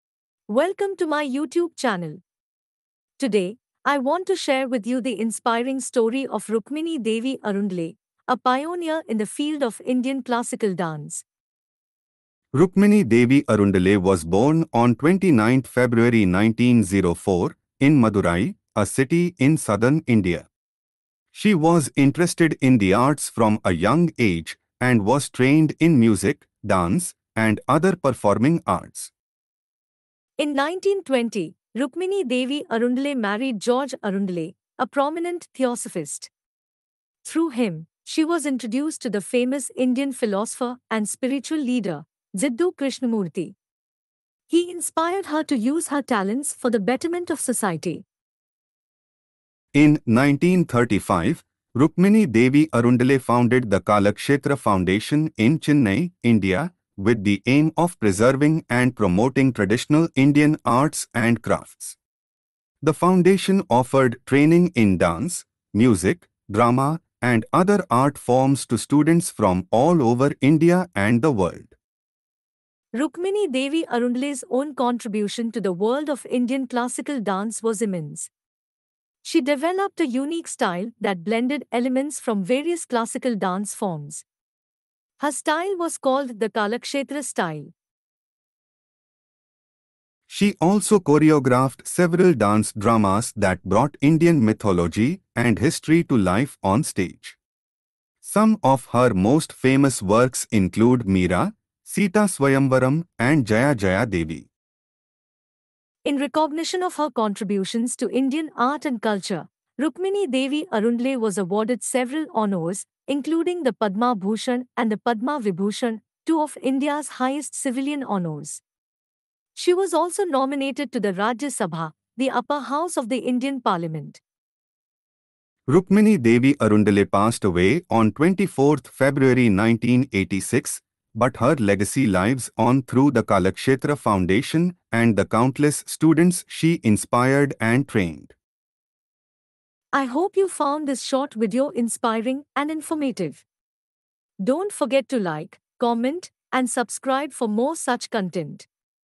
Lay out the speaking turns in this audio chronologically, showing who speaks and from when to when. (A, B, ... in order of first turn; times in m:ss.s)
0:00.5-0:02.2 A
0:03.2-0:11.2 A
0:12.5-0:20.5 B
0:21.3-0:29.1 B
0:30.4-0:36.3 A
0:37.2-0:43.6 A
0:44.5-0:48.0 A
0:49.7-1:02.0 B
1:02.8-1:11.8 B
1:12.9-1:18.3 A
1:19.2-1:24.2 A
1:25.2-1:27.7 A
1:30.3-1:37.4 B
1:38.2-1:44.5 B
1:46.0-1:58.6 A
1:59.6-2:04.2 A
2:05.7-2:18.3 B
2:19.9-2:23.4 A
2:24.4-2:28.7 A